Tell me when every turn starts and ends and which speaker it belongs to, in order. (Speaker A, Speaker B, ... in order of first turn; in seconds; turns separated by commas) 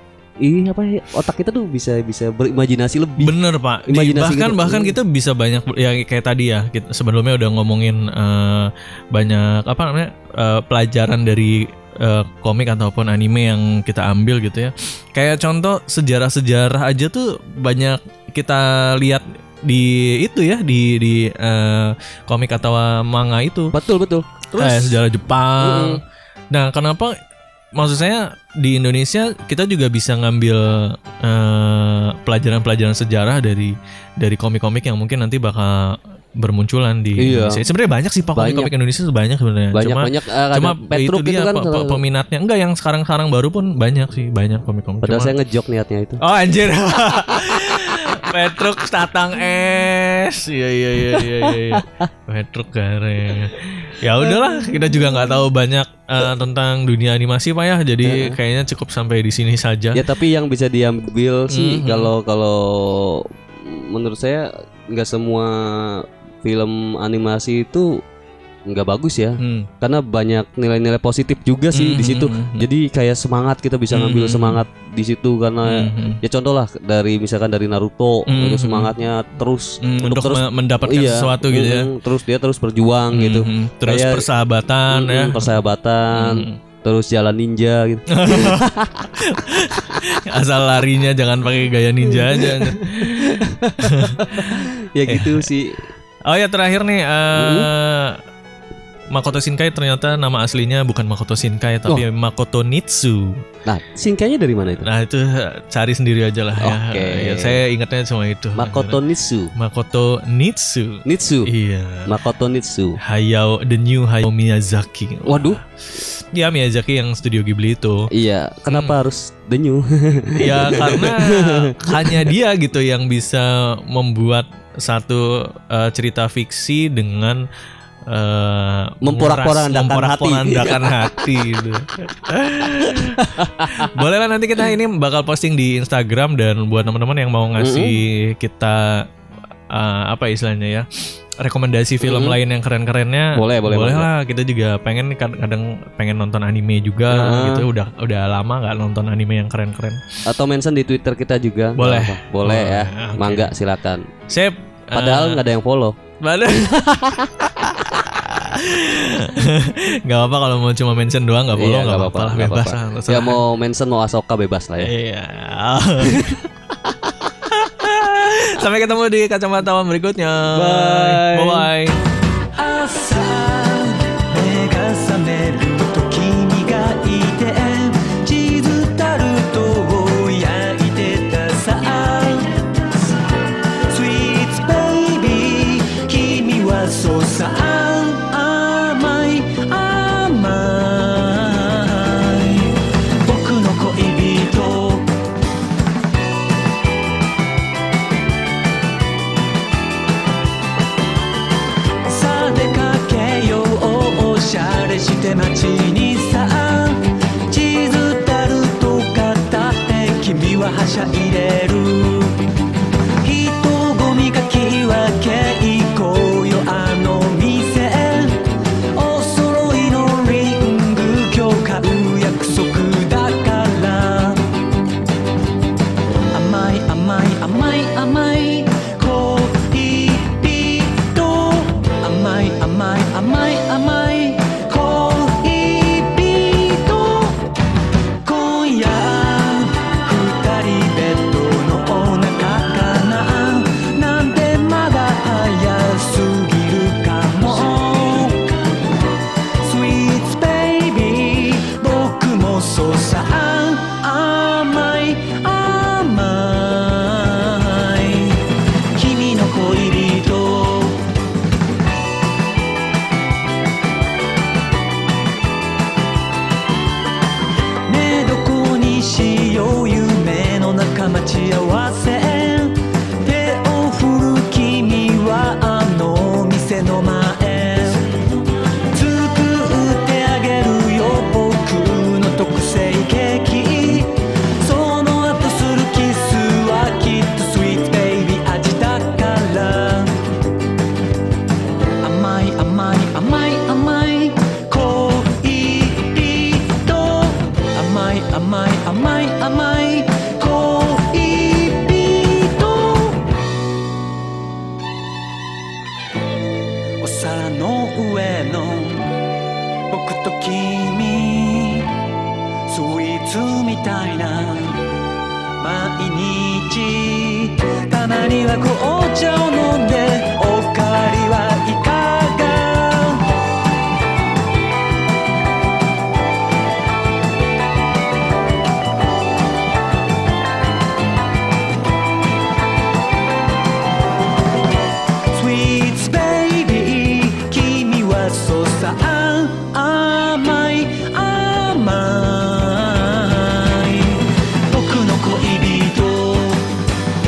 Speaker A: 0.4-3.3, Speaker B: 3.2-23.7, Speaker A: 3.9-4.9, Speaker A: 23.7-25.0, Speaker B: 24.6-27.1, Speaker A: 25.6-26.0, Speaker B: 27.7-45.3, Speaker A: 37.2-37.6, Speaker A: 38.4-38.7, Speaker A: 39.7-42.0, Speaker A: 45.0-46.2, Speaker B: 46.2-60.0, Speaker A: 51.1-52.1, Speaker A: 54.2-54.9, Speaker A: 58.0-58.4, Speaker A: 59.9-68.0, Speaker B: 61.5-62.1, Speaker A: 68.7-84.2, Speaker B: 69.4-69.7, Speaker B: 71.7-72.7, Speaker B: 73.9-74.6, Speaker B: 75.7-76.2, Speaker B: 78.3-78.9, Speaker B: 79.8-81.9, Speaker B: 83.1-86.6, Speaker A: 84.9-89.1, Speaker B: 88.1-95.5, Speaker A: 92.1-95.9, Speaker B: 96.2-98.2, Speaker A: 97.3-97.7, Speaker B: 99.1-103.4, Speaker A: 103.7-104.9, Speaker B: 104.8-109.0, Speaker A: 106.6-107.6, Speaker A: 108.6-109.5, Speaker B: 109.5-112.2, Speaker A: 111.0-111.5, Speaker A: 112.0-113.0, Speaker B: 113.0-118.1, Speaker A: 115.2-115.6, Speaker A: 118.1-122.3, Speaker B: 118.7-119.0, Speaker B: 120.3-127.4, Speaker B: 128.1-139.0, Speaker A: 129.0-131.3, Speaker A: 132.8-133.9, Speaker A: 137.6-137.9, Speaker B: 139.7-140.9, Speaker B: 141.4-150.0, Speaker A: 142.0-142.4, Speaker A: 143.3-144.1, Speaker A: 147.1-147.7, Speaker A: 150.2-154.1, Speaker B: 151.8-153.5, Speaker B: 154.3-155.4, Speaker A: 154.9-155.9, Speaker B: 156.2-163.4, Speaker A: 161.6-164.9, Speaker B: 164.8-166.2, Speaker A: 166.0-166.4, Speaker B: 167.4-172.0, Speaker A: 170.5-171.7, Speaker C: 172.5-182.8, Speaker C: 183.9-195.1, Speaker C: 202.1-212.4, Speaker C: 213.2-224.4, Speaker C: 226.3-237.4, Speaker C: 238.2-248.5, Speaker C: 249.6-261.1, Speaker C: 267.9-278.1, Speaker C: 278.9-290.1, Speaker C: 292.0-303.2, Speaker C: 307.0-309.1, Speaker C: 309.9-311.9, Speaker C: 312.7-314.8, Speaker C: 315.6-323.2, Speaker C: 335.3-346.7